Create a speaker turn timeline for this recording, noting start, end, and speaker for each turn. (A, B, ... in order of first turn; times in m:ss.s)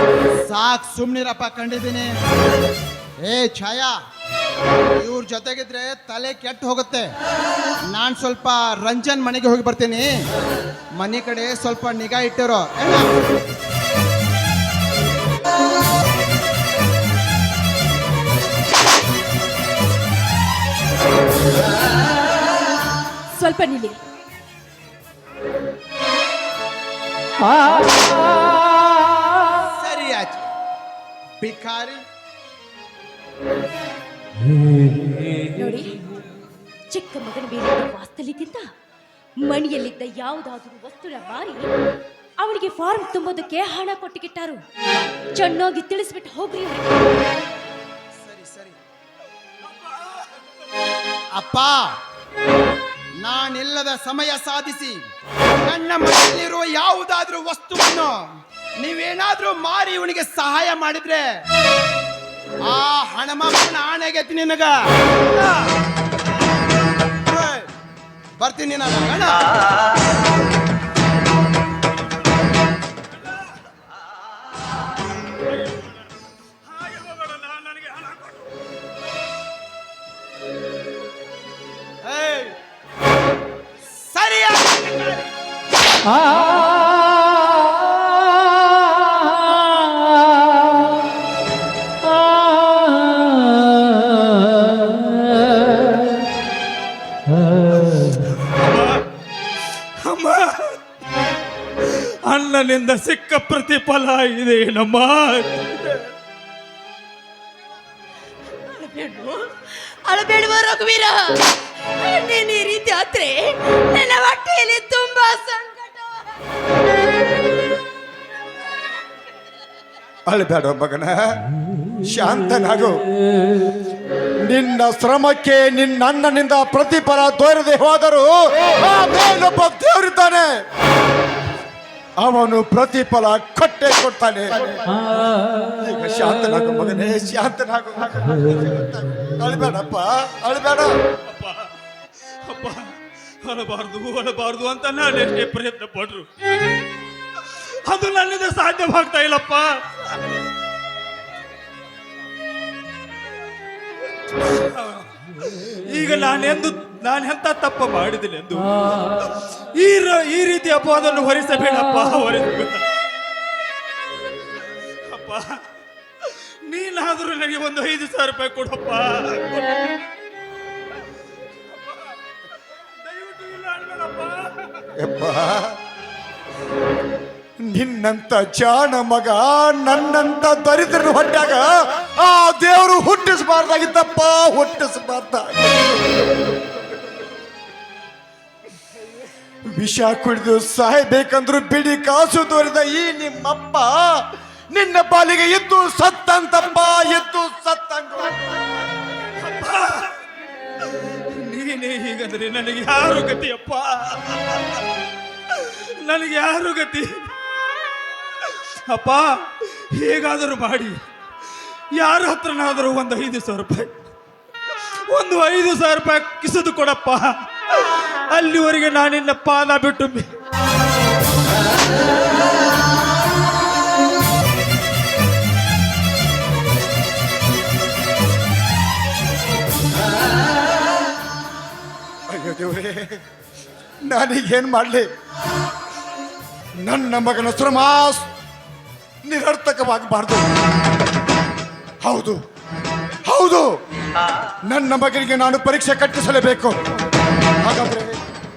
0:00.5-0:02.1 A
0:03.2-0:03.9 A
0:05.0-0:07.1 A
0:07.9-0:10.2 A
0:11.0-0:13.1 A
0:23.3-0:24.0 B
0:29.7-0:30.5 A
0:31.4-0:32.0 A
0:35.6-0:35.9 B
0:36.9-0:38.6 B
0:39.4-0:41.7 B
0:42.4-0:44.6 B
0:45.3-0:47.0 B
0:48.2-0:48.8 A
0:51.3-0:51.9 A
0:53.2-0:55.0 A
0:55.6-0:58.2 A
0:58.8-1:01.2 A
1:02.6-1:05.7 A
1:07.2-1:07.7 A
1:08.4-1:09.5 A
1:13.2-1:13.6 C
1:15.4-1:16.1 C
1:16.6-1:18.5 C
1:22.0-1:22.5 A
1:23.9-1:25.2 A
1:38.3-1:39.0 C
1:40.0-1:40.8 C
1:41.9-1:45.9 C
1:48.7-1:51.4 D
1:52.0-1:53.3 D
1:53.9-1:56.2 D
2:00.3-2:01.4 E
2:02.0-2:03.0 E
2:04.4-2:10.5 E
2:12.2-2:14.8 E
2:15.8-2:20.9 E
2:21.3-2:21.7 C
2:22.5-2:22.8 C
2:23.4-2:26.3 C
2:27.5-2:30.1 C
2:34.5-2:42.8 C
2:45.1-2:45.6 C
2:46.2-2:49.8 C
2:53.0-2:54.9 C
2:55.0-2:55.8 E
2:57.6-3:06.0 E
3:09.7-3:18.7 E
3:19.4-3:20.1 C
3:21.3-3:24.8 C
3:25.5-3:27.3 C
3:28.4-3:31.0 C
3:32.0-3:33.9 C
3:35.1-3:40.3 C
3:52.3-3:53.2 E
3:54.0-3:55.1 E
3:56.8-3:58.3 E
3:59.2-4:00.5 E
4:02.0-4:02.4 E
4:03.2-4:03.7 E
4:04.7-4:06.8 E
4:07.6-4:08.2 E